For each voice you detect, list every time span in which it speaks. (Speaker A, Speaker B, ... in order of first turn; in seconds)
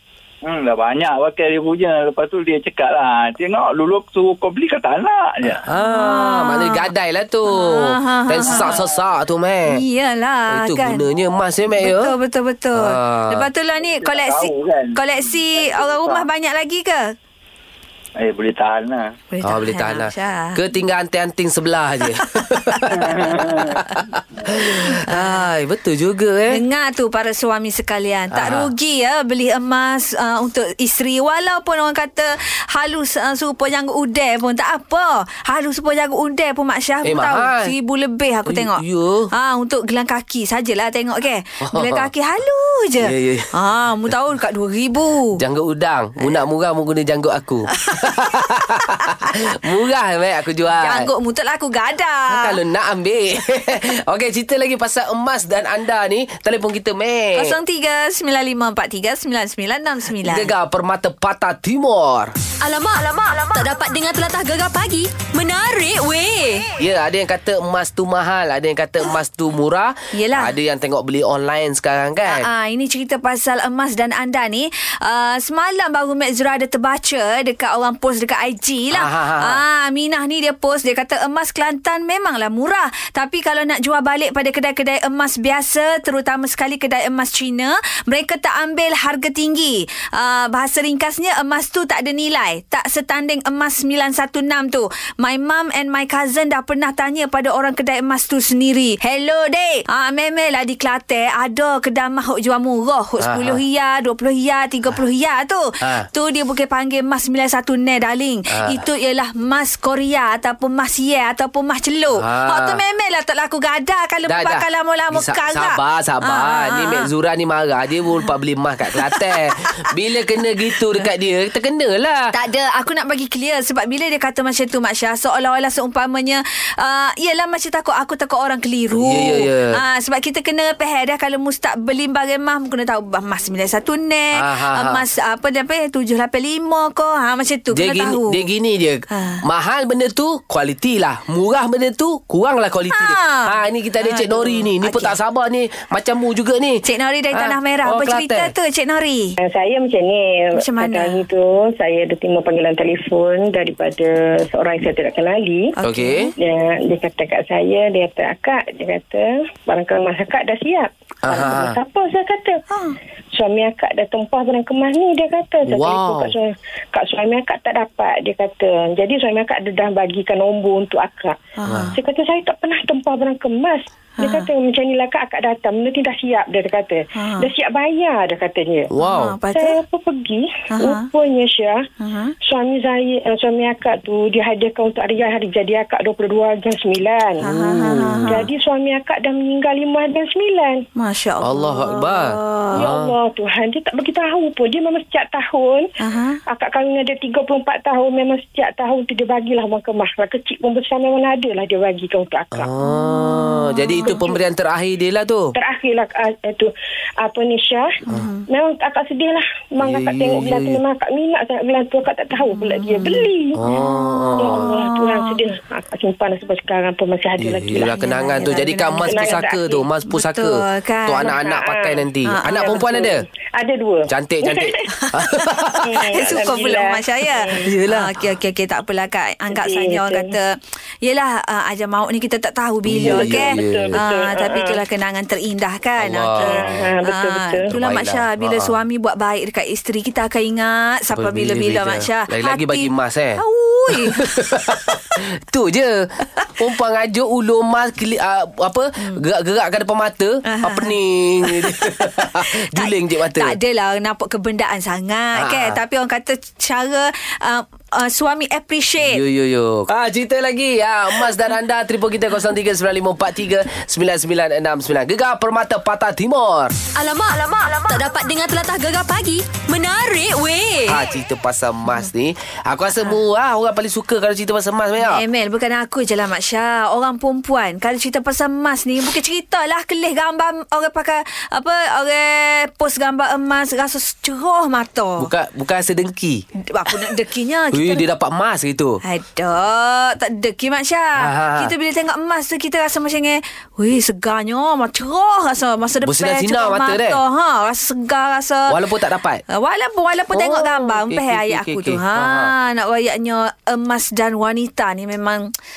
Speaker A: 0.4-5.6, 8.5-8.9, 13.8-16.2, 18.2-19.1, 22.9-23.8
Speaker B: 5.5-9.8, 10.5-12.1, 12.8-13.5, 19.4-26.6, 28.3-28.7, 37.0-37.7, 38.5-39.3, 41.6-42.1, 43.0-43.5, 45.4-51.1, 52.3-57.5, 60.2-62.3, 66.8-72.5, 78.9-79.6, 103.2-103.6, 105.8-106.1, 108.5-108.8, 112.2-112.8, 114.3-122.3, 128.9-129.8, 134.3-135.0, 137.7-148.5, 155.8-156.3, 161.2-161.8, 165.7-166.3, 171.7-171.9, 178.9-179.3, 187.4-188.5, 191.4-193.1, 202.5-205.5, 209.8-210.8, 213.6-214.7, 217.4-223.2, 224.1-226.7, 227.6-228.2, 232.8-234.0, 236.0-236.9, 237.7-238.7, 241.1-253.6, 255.3-255.8, 259.0-266.8, 270.9-275.2, 285.2-287.1, 287.7-289.0, 291.2-291.7, 296.0-297.2, 298.7-299.4, 300.3-302.5
Speaker C: 5.8-6.9, 7.5-8.8, 9.7-11.0, 11.8-17.1, 19.3-20.6, 25.0-25.5, 26.5-45.4, 48.6-49.3, 50.7-52.6, 57.3-60.5, 70.1-70.5, 72.2-117.1, 119.0-119.4, 122.3-138.4, 139.1-139.4, 142.9-145.1, 146.8-149.3, 150.5-151.2, 155.8-156.3, 162.7-163.0, 171.6-171.9, 174.2-174.5, 177.1-177.5, 179.0-179.8, 180.7-181.1, 182.0-182.3, 187.4-188.4, 190.9-192.8, 196.0-196.4, 202.8-204.2, 208.1-208.4, 212.5-215.3, 217.8-219.4, 220.1-221.4, 222.2-222.8, 224.9-244.3, 250.4-259.2, 275.0-285.3, 286.6-288.0, 289.0-298.8, 299.5-305.5
Speaker D: 62.6-66.7, 266.9-271.0
Speaker E: 149.4-155.7, 156.4-162.6, 163.3-171.4, 171.9-178.9, 179.5-181.8, 182.4-187.4, 188.2-190.8, 192.7-195.9, 196.5-202.7, 204.0-204.4, 205.5-206.7, 207.2-207.9, 208.5-213.7, 214.3-219.8, 221.2-224.8, 225.8-227.7, 229.5-230.3, 233.0-234.8, 236.4-237.7